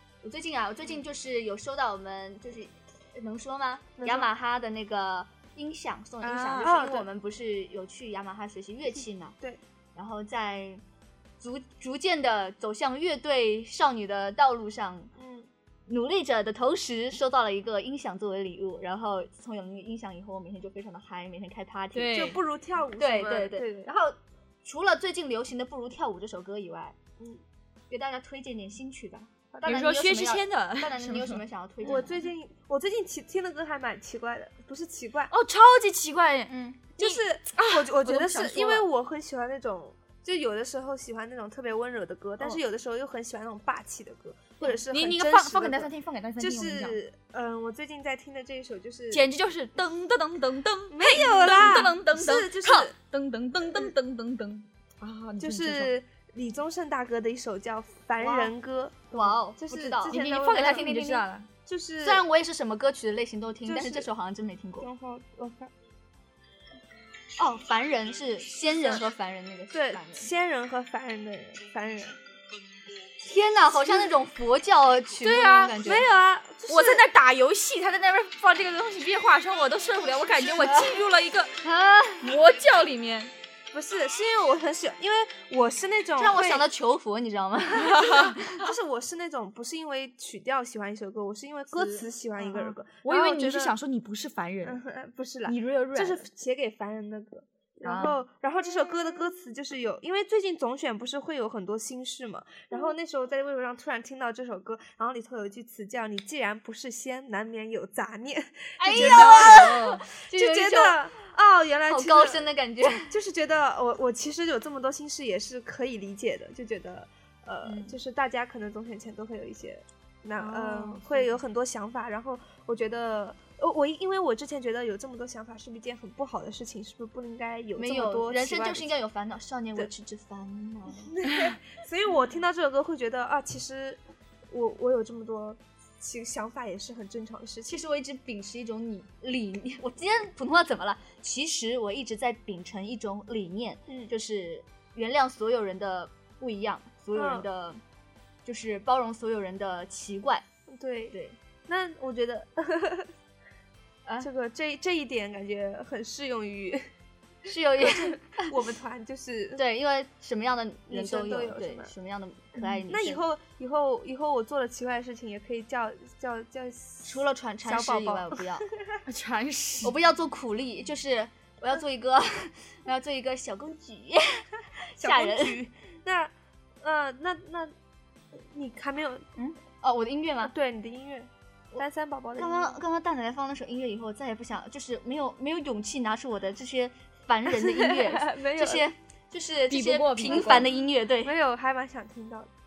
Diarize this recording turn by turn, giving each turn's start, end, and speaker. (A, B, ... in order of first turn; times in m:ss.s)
0:00.2-0:09.4 A
0:04.0-0:04.3 B
0:06.2-0:06.7 C
0:06.5-0:07.1 B
0:10.0-0:10.8 A
0:11.4-0:15.1 A
0:15.2-0:15.5 B
0:15.9-0:22.3 A
0:21.9-0:22.4 C
0:22.1-0:23.9 B
0:23.0-0:27.0 A
0:27.9-0:32.2 A
0:29.5-0:29.9 B
0:29.6-0:32.1 C
0:31.8-0:35.3 B
0:35.3-0:38.9 C
0:36.5-0:36.8 A
0:37.0-0:49.2 B
0:44.9-0:47.0 C
0:49.1-0:55.9 C
0:50.9-0:52.9 B
0:55.4-1:02.2 B
0:58.2-0:58.5 A
0:59.1-1:00.2 A
1:00.0-1:01.5 C
1:02.0-1:04.9 A
1:03.6-1:04.1 B
1:04.8-1:05.7 B
1:07.4-1:10.3 A
1:09.7-1:12.2 B
1:13.2-1:16.1 A
1:15.2-1:15.9 C
1:15.5-1:17.1 B
1:16.7-1:21.6 C
1:20.6-1:20.9 A
1:21.6-1:22.3 A
1:22.2-1:23.3 C
1:23.7-1:26.7 B
1:26.2-1:28.6 A
1:27.8-1:28.4 C
1:28.2-1:33.8 B
1:31.8-1:32.0 A
1:32.8-1:34.8 C
1:34.6-1:52.5 B
1:35.5-1:36.3 C
1:37.8-1:38.2 C
1:48.8-1:51.0 A
1:48.9-1:50.1 C
1:51.9-1:53.1 A
1:53.1-2:08.9 B
1:57.6-1:58.0 A
2:00.4-2:01.4 A
2:07.8-2:11.2 A
2:11.1-2:17.8 B
2:17.7-2:27.8 A
2:27.2-2:27.5 B
2:28.4-2:30.4 A
2:30.7-2:31.2 B
2:31.1-2:31.4 A
2:31.7-2:33.1 B
2:34.2-2:36.9 B
2:37.5-2:38.5 A
2:37.8-2:39.6 B
2:39.6-2:43.2 A
2:40.9-2:41.9 B
2:42.6-2:42.8 C
2:42.9-2:49.0 B
2:47.0-2:48.7 A
2:49.1-2:49.9 C
2:49.8-2:55.6 A
2:55.0-2:57.8 B
2:58.3-2:59.2 B
2:59.4-3:00.5 A
3:00.4-3:02.8 B
3:02.4-3:11.3 A
3:07.5-3:08.9 B
3:09.7-3:10.7 C
3:10.2-3:12.5 B